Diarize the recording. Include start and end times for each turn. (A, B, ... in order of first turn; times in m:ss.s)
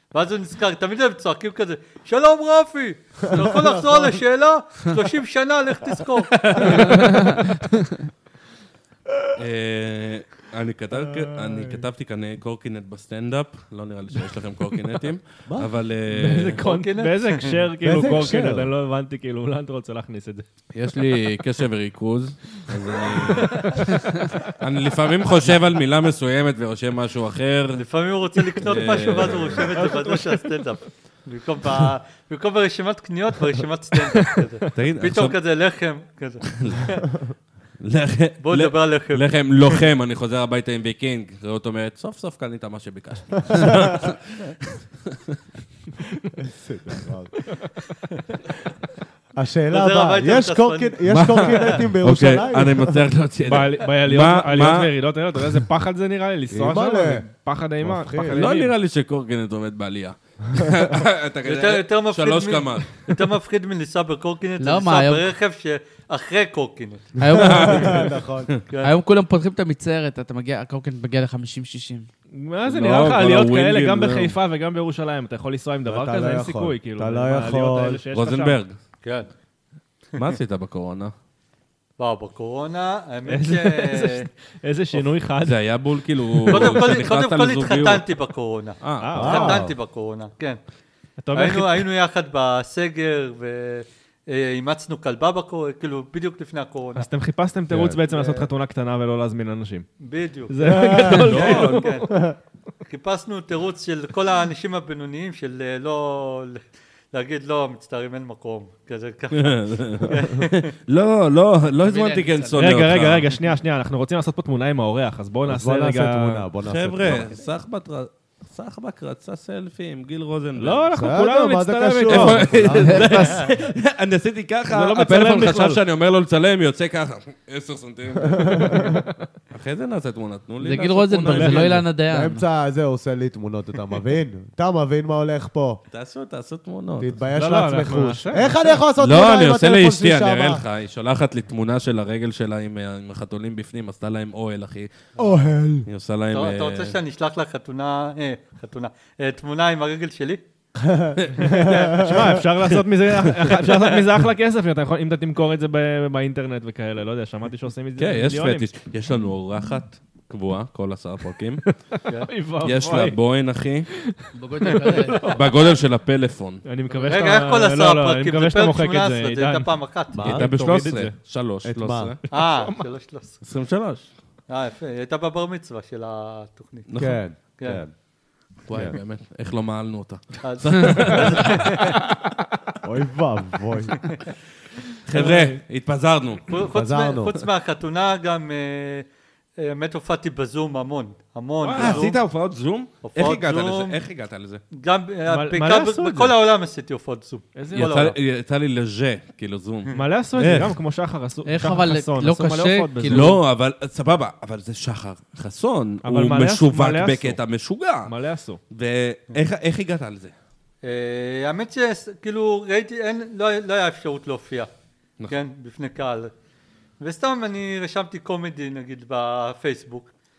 0:00.1-0:07.0 A
0:06.4-0:07.0 B
0:06.8-0:07.4 C
0:07.1-0:07.4 D
0:09.4-0:16.6 B
0:11.1-0:11.8 E
0:16.1-0:20.5 C
0:16.6-0:17.6 A
0:17.8-0:18.7 E
0:20.7-0:23.8 B
0:24.4-0:27.8 B
0:27.8-0:37.1 A
0:28.6-0:29.8 B
0:34.7-0:35.4 B
0:37.8-0:45.4 B
0:38.4-0:39.8 A
0:46.4-0:47.4 E
0:49.4-0:53.0 E
0:49.7-0:51.7 A
0:51.1-0:54.9 B
0:53.5-0:58.7 C
0:56.5-0:57.3 E
0:57.8-0:58.5 E
0:58.3-1:03.2 B
1:01.4-1:07.1 A
1:04.6-1:05.3 D
1:07.2-1:08.1 D
1:07.2-1:08.5 E
1:07.3-1:08.6 B
1:08.8-1:12.1 D
1:12.3-1:18.6 C
1:12.6-1:14.4 B
1:15.9-1:18.0 E
1:18.1-1:18.8 B
1:19.0-1:19.3 A
1:20.2-1:21.1 B
1:22.0-1:24.3 A
1:23.3-1:25.6 C
1:25.4-1:28.0 B
1:26.4-1:26.7 C
1:26.5-1:30.6 A
1:28.8-1:29.4 B
1:29.0-1:29.6 C
1:29.2-1:29.7 E
1:31.2-1:31.8 C
1:31.3-1:37.1 A
1:37.0-1:39.9 C
1:37.7-1:38.5 E
1:40.0-1:42.2 A
1:40.5-1:42.1 C
1:40.6-1:42.4 E
1:41.3-1:41.9 B
1:42.8-1:50.7 A
1:49.3-1:53.4 B
1:51.7-1:52.8 D
1:52.6-1:56.5 C
1:55.5-1:57.4 E
1:56.6-2:00.9 B
2:00.6-2:02.8 C
2:00.9-2:03.3 E
2:02.1-2:08.9 B
2:02.8-2:03.4 D
2:04.7-2:05.8 C
2:08.3-2:08.9 E
2:09.5-2:11.8 B
2:10.6-2:12.4 D
2:11.3-2:11.8 C
2:12.0-2:15.8 E
2:15.9-2:17.2 B
2:17.0-2:20.6 E
2:17.4-2:18.7 C
2:19.0-2:24.9 B
2:25.2-2:25.9 E
2:25.8-2:27.0 B
2:26.3-2:30.4 A
2:30.8-2:32.4 E
2:31.2-2:31.5 B
2:31.6-2:38.7 C
2:32.6-2:33.6 B
2:38.0-2:41.6 B
2:41.7-2:43.2 C
2:42.6-2:43.9 B
2:43.9-2:45.5 C
2:44.4-2:45.4 D
2:45.3-2:46.6 B
2:46.6-2:49.7 C
2:47.1-2:50.2 A
2:50.1-2:50.6 E
2:50.2-2:51.2 C
2:50.2-2:52.2 B
2:51.6-2:52.2 E
2:52.3-2:52.8 C
2:52.3-2:53.4 A
2:53.4-2:54.1 B
2:54.5-2:56.9 A
2:56.9-2:57.2 B
2:57.0-2:57.9 E
2:58.7-3:02.0 B
2:58.7-2:59.0 E
3:00.4-3:02.0 A
3:02.8-3:04.1 E
3:05.1-3:06.6 B
3:05.1-3:05.6 C
3:06.5-3:09.1 A
3:06.7-3:07.4 E
3:09.6-3:12.2 A
3:11.6-3:14.6 B
3:13.0-3:14.0 A
3:14.7-3:18.2 A
3:15.3-3:16.3 C
3:17.6-3:18.1 C
3:17.7-3:20.8 B
3:19.9-3:23.4 C
3:21.5-3:23.4 D
3:23.0-3:28.1 B
3:26.0-3:27.4 C
3:28.1-3:28.6 C
3:28.7-3:30.3 B
3:30.8-3:34.7 A
3:35.3-3:36.3 A
3:37.0-3:40.1 A